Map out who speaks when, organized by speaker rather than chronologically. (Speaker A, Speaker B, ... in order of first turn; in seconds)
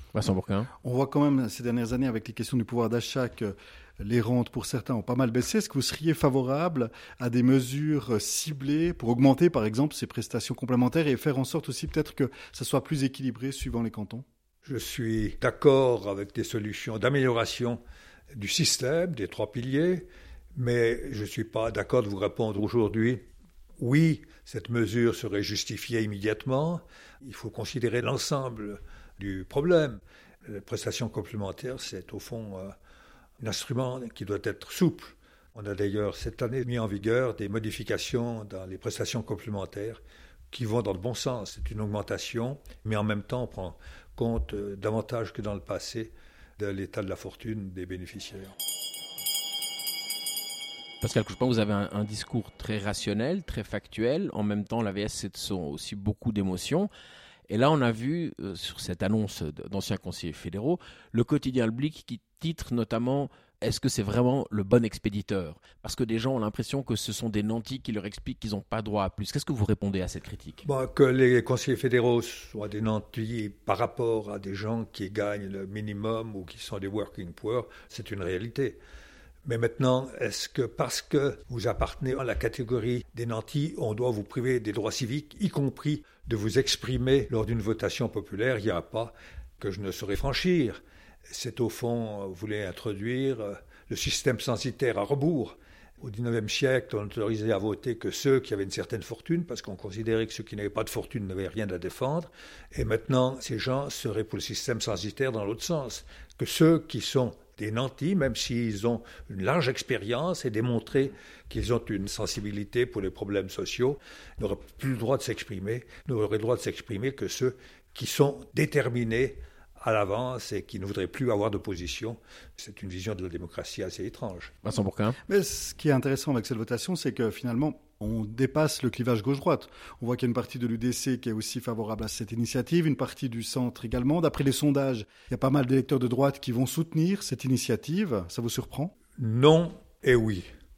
Speaker A: 0.1-0.7, 51.0-56.9, 57.5-70.6, 124.6-125.2
Speaker B: 0.8-14.2, 125.3-138.9
Speaker C: 14.6-17.8, 18.3-23.2, 23.8-32.7, 33.4-48.5, 70.6-78.8, 79.4-124.5, 139.2-140.5